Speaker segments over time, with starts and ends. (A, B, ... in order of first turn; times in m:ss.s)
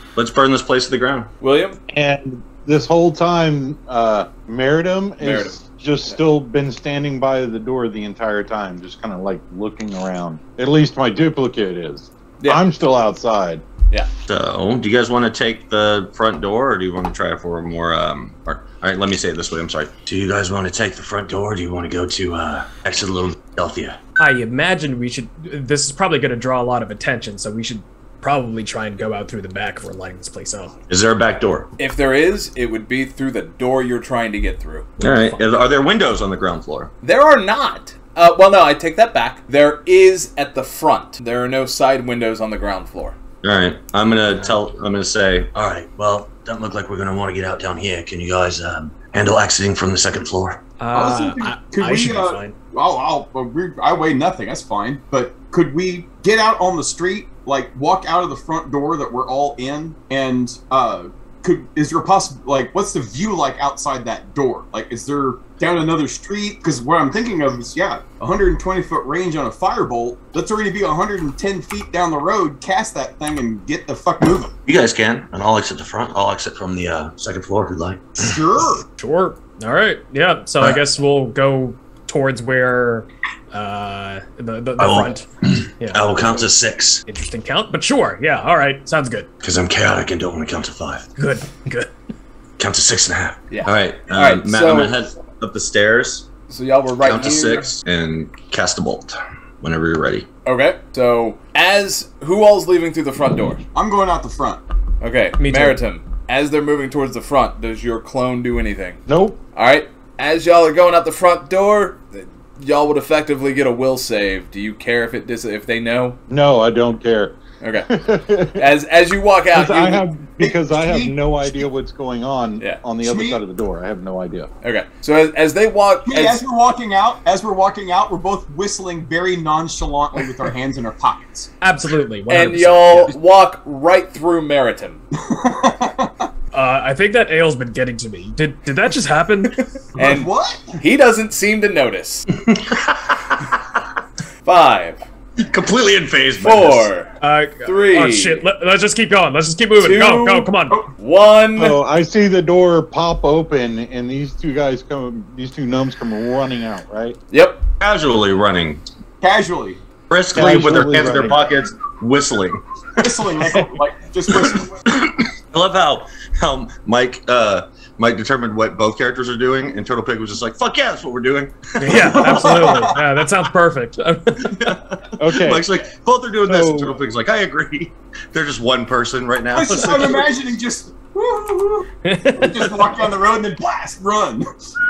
0:00.2-0:01.3 A
0:01.4-0:01.8 B
0:01.9-0:13.6 C
0:05.2-0:05.6 B
0:14.3-0:24.0 A
0:24.2-0:30.7 D
0:30.9-0:31.7 A
0:31.8-0:34.9 B
0:35.0-0:36.9 A
0:37.0-0:43.2 B
0:43.4-0:50.6 A
0:50.8-0:52.6 D
0:50.9-1:14.5 E
1:14.7-1:18.4 A
1:18.2-1:18.9 E
1:19.0-1:25.3 D
1:24.8-1:27.0 A
1:25.8-1:26.2 D
1:27.1-1:29.3 D
1:29.4-1:31.1 A
1:31.2-1:31.9 D
1:32.6-1:36.3 A
1:33.5-1:35.0 B
1:36.5-1:37.7 B
1:37.0-1:40.3 A
1:40.5-1:43.6 B
1:43.7-1:44.6 E
1:45.0-1:49.0 B
1:45.4-1:45.8 D
1:49.1-1:49.4 C
1:49.6-1:56.2 B
1:56.3-1:57.4 C
1:57.6-1:57.9 B
1:57.9-1:58.7 C
1:58.5-2:00.0 B
1:59.5-2:04.5 C
2:00.4-2:01.2 E
2:03.0-2:03.4 E
2:04.6-2:06.4 B
2:06.1-2:11.5 E
2:11.6-2:13.1 D
2:12.3-2:15.0 B
2:15.2-2:16.3 E
2:16.5-2:19.8 D
2:20.0-2:20.7 E
2:20.0-2:22.3 B
2:22.4-2:23.6 A
2:24.4-2:25.0 B
2:25.4-2:26.9 A
2:26.4-2:28.5 B
2:27.2-2:30.8 D
2:29.8-2:31.8 B
2:31.6-2:37.2 C
2:37.3-2:37.6 B
2:37.8-2:38.8 A
2:39.2-2:39.8 E
2:40.1-2:43.4 A
2:40.3-2:41.4 C
2:43.0-2:44.8 E
2:44.3-2:52.9 A
2:51.8-2:54.7 D
2:51.9-2:53.0 E
2:54.4-3:00.3 A
2:55.2-2:55.7 C
2:56.5-2:57.0 C
2:59.5-3:04.4 E
3:02.0-3:02.7 D